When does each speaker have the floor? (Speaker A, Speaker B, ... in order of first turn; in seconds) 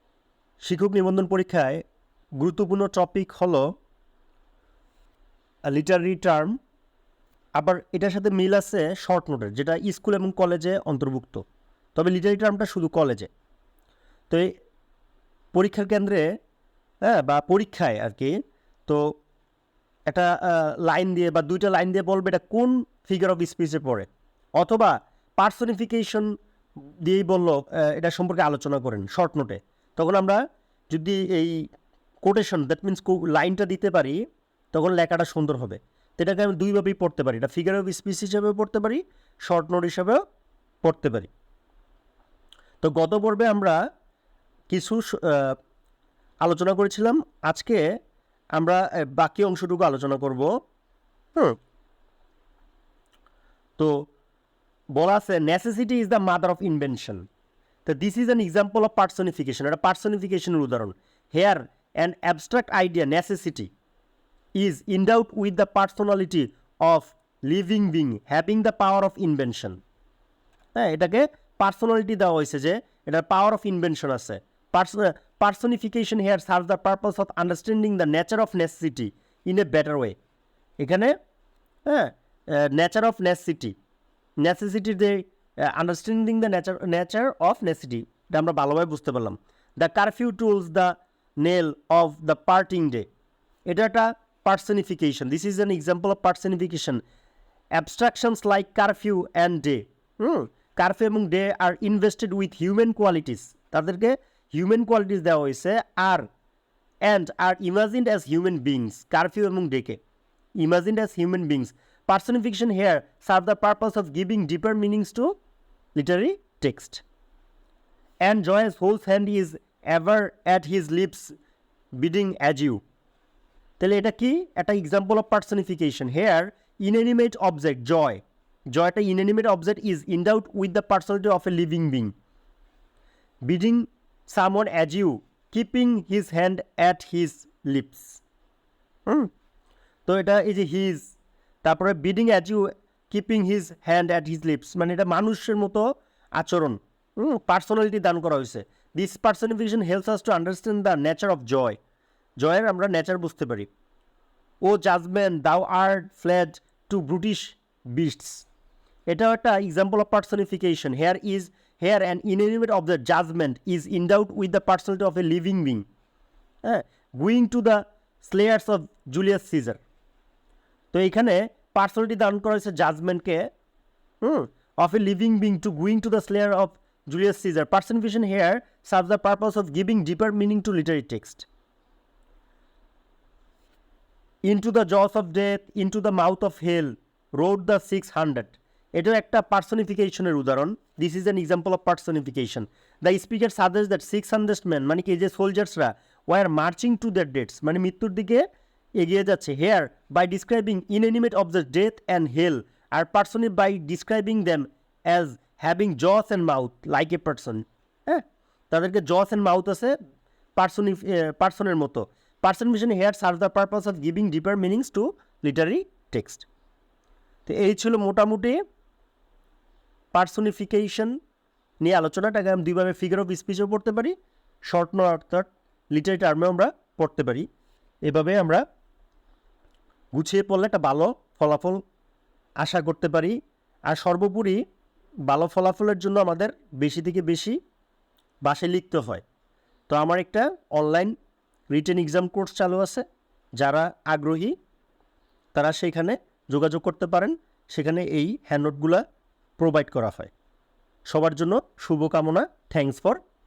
Speaker A: 0.6-1.8, 2.4-3.6, 5.7-6.6, 7.5-11.4, 11.9-13.3, 15.5-16.2, 17.0-18.3, 18.9-19.1, 20.1-26.3, 27.0-31.6, 32.2-34.2, 34.7-40.2, 40.8-41.3, 42.8-43.8, 44.7-45.6, 46.4-47.8, 48.6-50.5, 55.0-57.2, 57.9-63.7, 64.5-69.8, 70.8-80.2, 80.8-81.2, 81.9-83.8, 84.4-93.1, 93.7-97.0, 97.7-106.3, 107.0-110.0, 110.6-115.4, 116.0-117.0, 118.2-121.3, 122.0-122.8, 123.8-132.1, 133.4-138.2, 140.1-151.8, 152.4-153.7, 154.6-158.5, 159.1-165.9, 166.6-169.8, 170.9-173.5, 174.2-181.5, 184.4-198.4, 199.0-209.9, 210.6-216.5, 217.5-218.6, 220.1-221.2, 221.8-224.1, 224.7-227.4, 228.1-228.6, 230.1-231.8, 232.6-233.3, 233.9-234.6, 235.3-237.6, 238.4-239.2, 239.9-241.1, 241.7-243.0, 243.6-244.6, 245.5-249.0, 249.6-250.3, 251.1-253.2